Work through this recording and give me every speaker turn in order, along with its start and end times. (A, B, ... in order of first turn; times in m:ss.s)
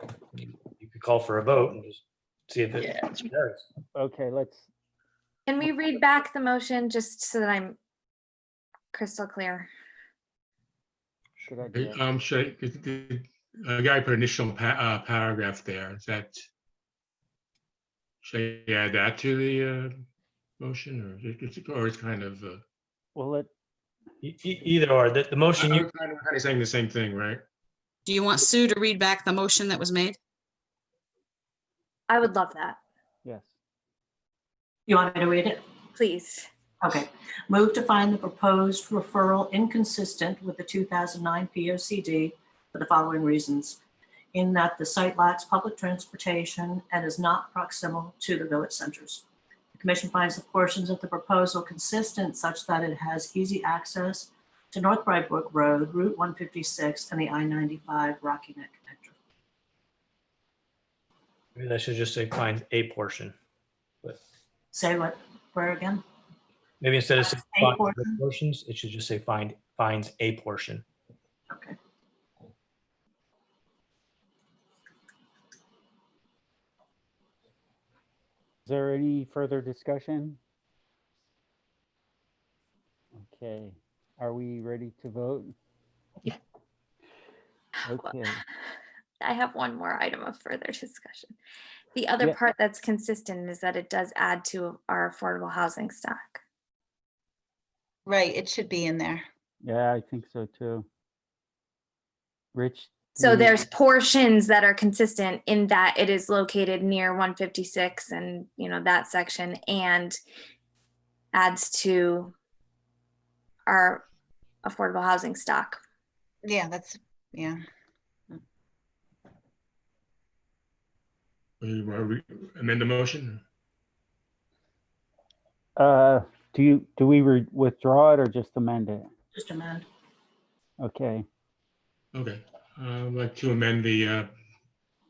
0:00.3-0:03.6 A
0:04.0-0:04.7 B
0:05.5-0:07.8 C
0:08.9-0:09.7 C
0:11.5-0:12.0 B
0:11.7-0:16.4 D
0:18.2-0:19.9 D
0:20.6-0:22.6 D
0:23.2-0:23.5 B
0:24.2-0:25.9 A
0:25.5-0:27.4 D
0:28.1-0:30.2 E
0:32.1-0:32.8 C
0:33.2-0:33.6 B
0:34.9-0:35.6 F
0:36.0-0:36.5 C
0:36.8-0:43.8 F
0:44.3-0:59.2 F
1:01.6-1:03.4 A
1:04.7-1:06.0 F
1:06.8-1:10.8 A
1:07.2-1:08.2 F
1:11.5-1:11.8 F
1:18.7-1:20.4 B
1:23.2-1:25.5 B
1:27.9-1:28.4 B
1:29.2-1:31.4 C
1:32.0-1:36.4 C
1:38.1-1:39.2 G
1:39.6-1:40.9 B
1:42.5-1:43.7 B
1:43.2-1:50.2 C
1:51.3-1:52.3 C
1:53.7-1:54.0 C
1:54.6-1:55.8 C
1:56.4-1:57.6 G
2:01.6-2:03.4 D
2:05.8-2:09.1 B
2:09.3-2:09.9 F
2:10.8-2:11.2 B
2:12.1-2:14.3 D